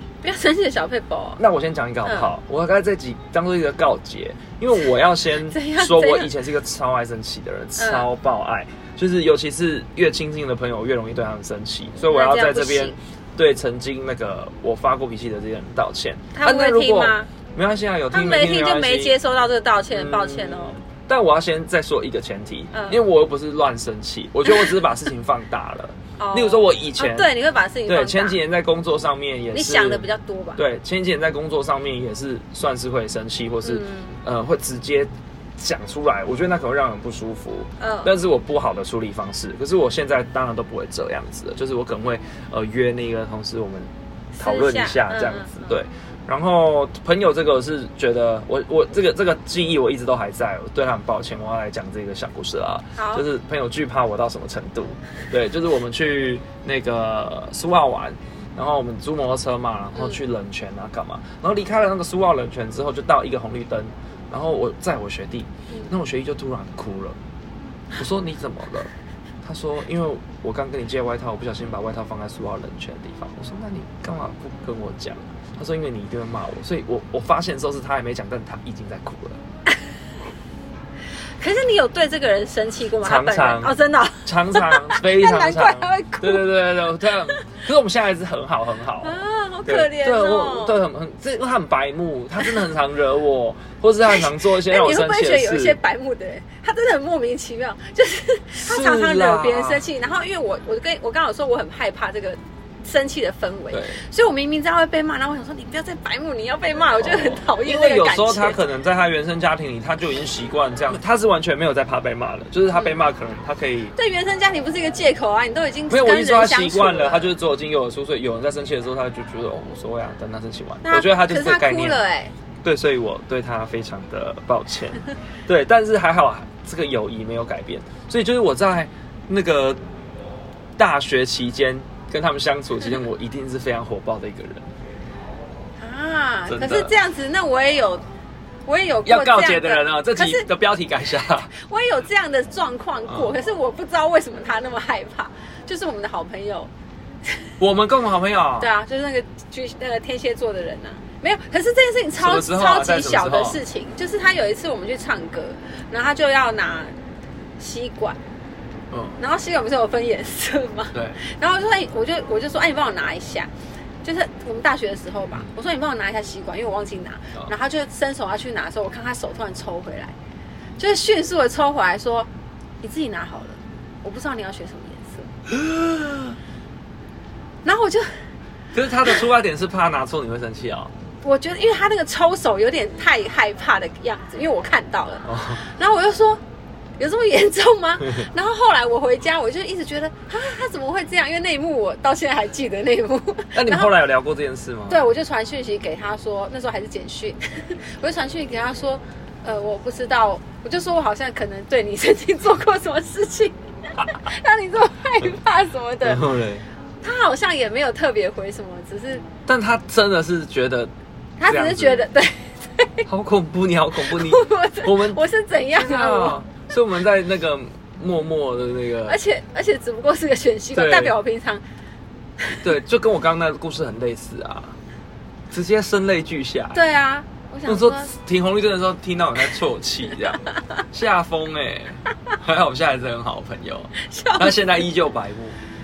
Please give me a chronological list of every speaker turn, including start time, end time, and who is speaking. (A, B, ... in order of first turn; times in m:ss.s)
0:00.2-0:01.4 A
0:01.4-0:19.2 B
0:02.0-0:02.3 A
0:05.5-0:06.3 A
0:07.8-0:08.1 A
0:12.1-0:13.0 A
0:16.3-0:17.3 A
0:18.1-0:20.8 A
0:19.9-0:27.3 B
0:22.7-0:23.0 A
0:26.2-0:28.4 A
0:27.8-1:07.2 B
0:29.5-0:30.6 A
0:33.6-0:34.2 A
0:37.8-0:38.1 A
0:44.4-0:45.7 A
0:53.0-0:53.2 A
1:08.0-1:08.9 B
1:09.4-1:19.4 B
1:21.4-1:26.5 A
1:23.0-1:35.8 B
1:29.0-1:30.8 A
1:34.1-1:48.6 A
1:38.5-1:39.8 B
1:43.7-1:44.0 B
1:47.0-1:53.9 B
1:53.9-1:57.3 A
1:55.9-2:02.0 B
2:00.8-2:02.3 A
2:02.6-2:09.8 B
2:10.8-2:14.7 B
2:15.8-2:18.0 A
2:16.5-2:16.9 B
2:18.7-2:20.5 A
2:19.0-2:21.5 B
2:21.5-2:26.7 A
2:23.1-2:23.4 B
2:27.6-2:28.7 B
2:28.6-2:36.9 A
2:32.2-2:33.6 B
2:37.6-2:38.2 A
2:38.9-2:39.2 B
2:39.2-2:43.5 A
2:40.9-2:41.2 B
2:44.0-2:50.1 A
2:50.8-2:52.3 A
2:52.8-2:55.3 A
2:55.5-2:56.4 B
2:57.6-2:58.2 A
2:58.7-3:00.9 B
3:01.2-3:06.4 A
3:05.2-3:05.6 B
3:07.0-3:13.9 A
3:13.5-3:15.0 B
3:14.9-3:26.3 A
3:26.0-3:26.6 B
3:27.0-3:29.2 A
3:29.4-3:30.9 B
3:31.4-3:33.1 A
3:31.4-3:32.0 B
3:33.1-3:39.2 B
3:34.0-3:36.4 A
3:39.0-3:41.6 A
3:40.7-3:41.2 B
3:42.6-3:44.8 B
3:45.5-3:46.8 B
3:46.7-3:48.1 A
3:47.6-3:55.6 B
3:54.0-3:54.6 A